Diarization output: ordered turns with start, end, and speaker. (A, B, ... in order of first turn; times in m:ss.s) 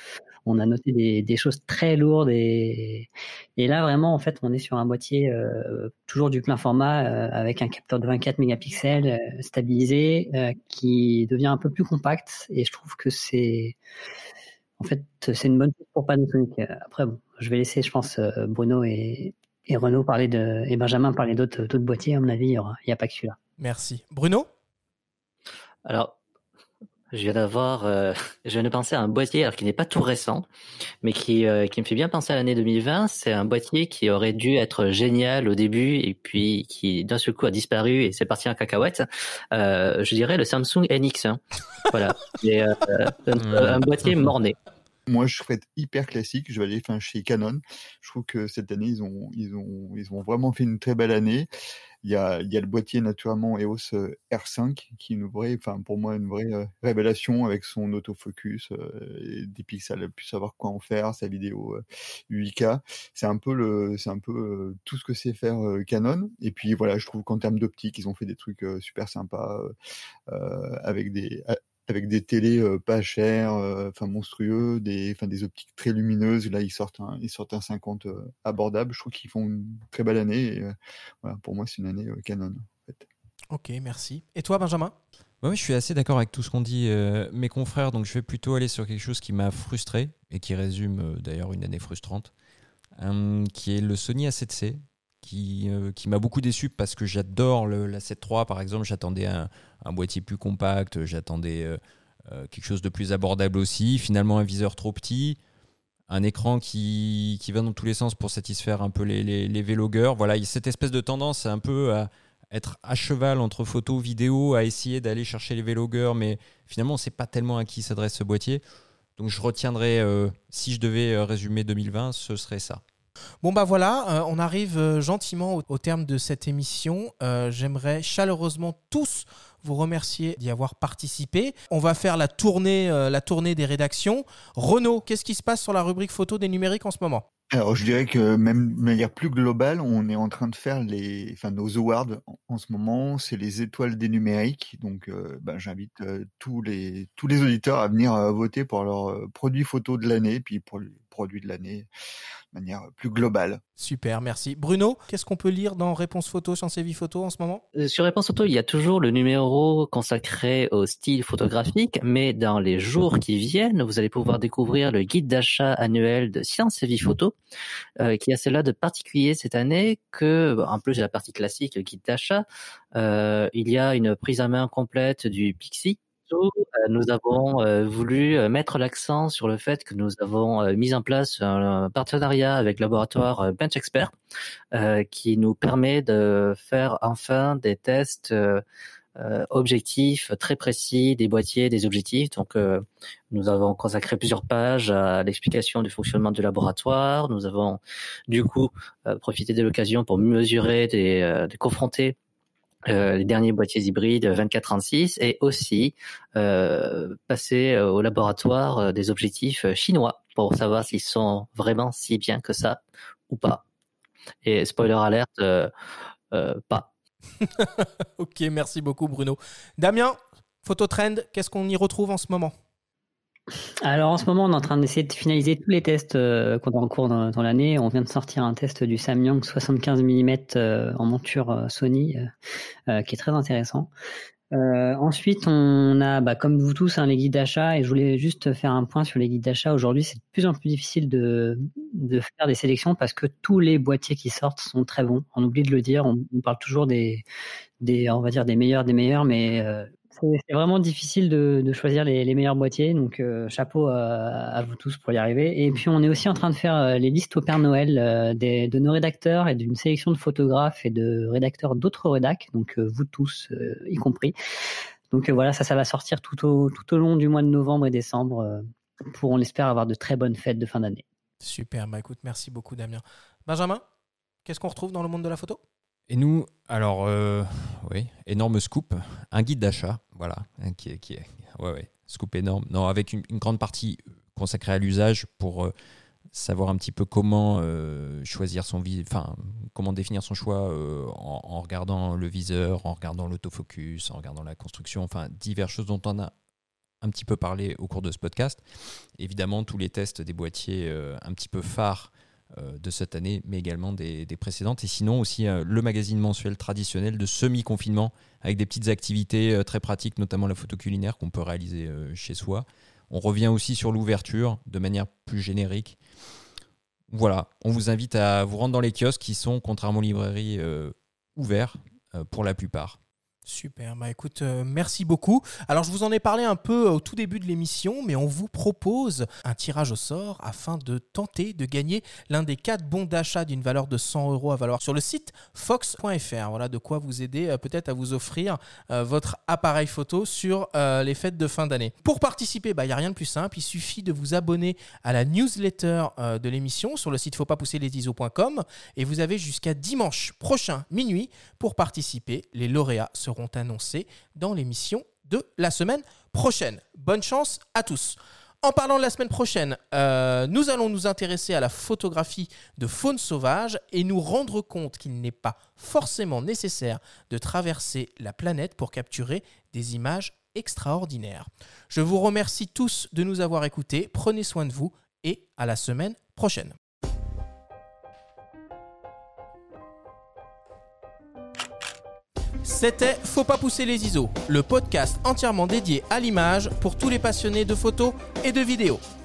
0:00.4-0:13.8 A
0:14.8-0:23.4 A
0:23.6-0:24.5 B
0:25.8-0:26.2 C
0:27.1-0:30.5 C
0:31.0-0:44.6 C
0:43.4-0:44.3 D
0:45.1-0:51.5 E
0:52.0-1:09.7 E
1:10.3-1:23.1 E
1:23.5-1:24.9 B
1:25.4-1:32.3 D
1:33.0-1:45.4 D
1:46.1-1:58.6 D
1:59.2-2:02.8 D
2:03.4-2:17.2 B
2:17.5-2:31.9 E
2:32.5-2:33.6 E
2:33.8-2:37.6 B
2:37.7-2:47.3 C
2:48.0-3:04.1 C
3:04.7-3:08.6 C
3:09.2-3:22.2 C
3:22.8-3:33.6 C
3:34.4-3:35.7 C
3:36.3-3:36.9 C
3:37.6-3:42.5 B
3:43.8-3:52.3 A
3:52.9-3:53.9 A
3:54.5-4:07.2 A
4:07.8-4:24.3 A
4:25.1-4:31.0 A
4:31.4-4:33.8 B
4:34.4-4:35.6 B
4:36.1-4:45.7 D
4:46.3-4:56.3 D
4:57.0-4:58.6 D
4:59.2-5:16.0 D
5:17.1-5:23.0 D
5:23.4-6:16.8 B
6:22.6-6:29.0 B